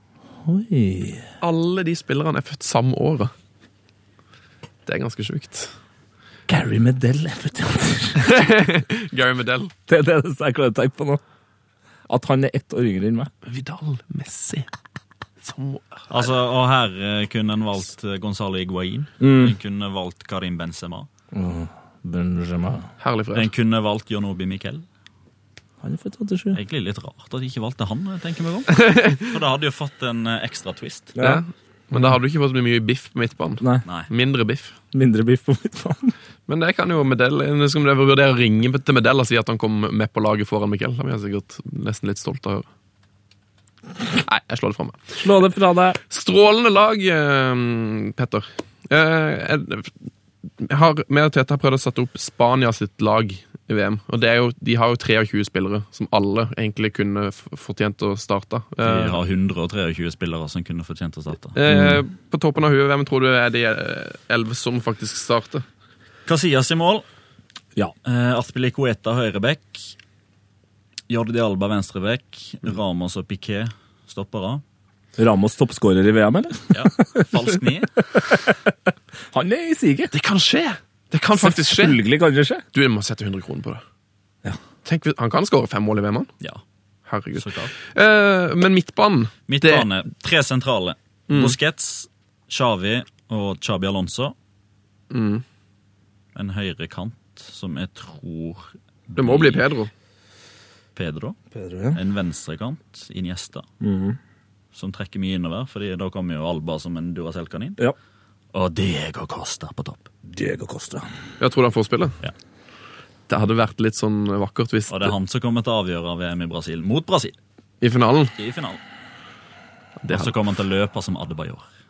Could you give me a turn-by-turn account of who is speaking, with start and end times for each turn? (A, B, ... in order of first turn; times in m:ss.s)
0:00.4-0:01.2 A
0:01.4-0:03.3 B
0:04.8-0:05.7 B
0:06.5-0:08.3 A
0:08.2-0:09.7 B
0:09.9-0:11.2 A
0:12.1-0:13.3 A
0:13.4-0:14.7 B
0:15.4-0:16.1 B
0:16.1-0:21.1 C
0:19.2-0:19.5 A
0:21.3-0:22.9 A
0:23.0-0:23.5 B
0:23.3-0:24.8 C
0:25.8-0:26.6 A
0:26.5-0:31.2 C
0:31.2-0:31.4 A
0:31.2-0:34.8 B
0:33.8-0:34.1 C
0:34.9-0:36.1 A
0:36.5-0:42.7 B
0:44.2-0:45.2 B
0:45.2-0:46.0 A
0:46.1-0:49.9 B
0:50.6-0:59.2 B
0:58.8-1:01.6 C
1:01.5-1:05.6 B
1:01.7-1:02.0 A
1:06.3-1:07.0 C
1:08.0-1:09.9 C
1:11.1-1:14.6 C
1:15.2-1:17.4 A
1:16.7-1:17.9 C
1:18.0-1:18.7 A
1:19.3-1:20.1 A
1:20.1-1:22.0 B
1:21.4-1:22.6 A
1:22.7-1:23.8 B
1:24.8-1:26.3 B
1:27.1-1:29.9 B
1:27.4-1:27.7 C
1:29.5-1:34.3 C
1:31.3-1:31.5 B
1:35.1-1:35.4 B
1:36.3-1:39.6 C
1:39.1-1:39.9 B
1:40.9-1:41.4 C
1:41.5-1:42.0 A
1:41.9-1:43.7 C
1:43.8-1:44.2 A
1:44.7-1:47.8 C
1:48.5-1:50.1 C
1:50.3-1:51.1 A
1:51.4-1:52.2 B
1:53.3-1:55.1 B
1:54.9-1:57.3 C
1:57.8-1:58.3 B
1:58.4-1:58.8 C
2:00.0-2:00.3 B
2:00.1-2:01.6 C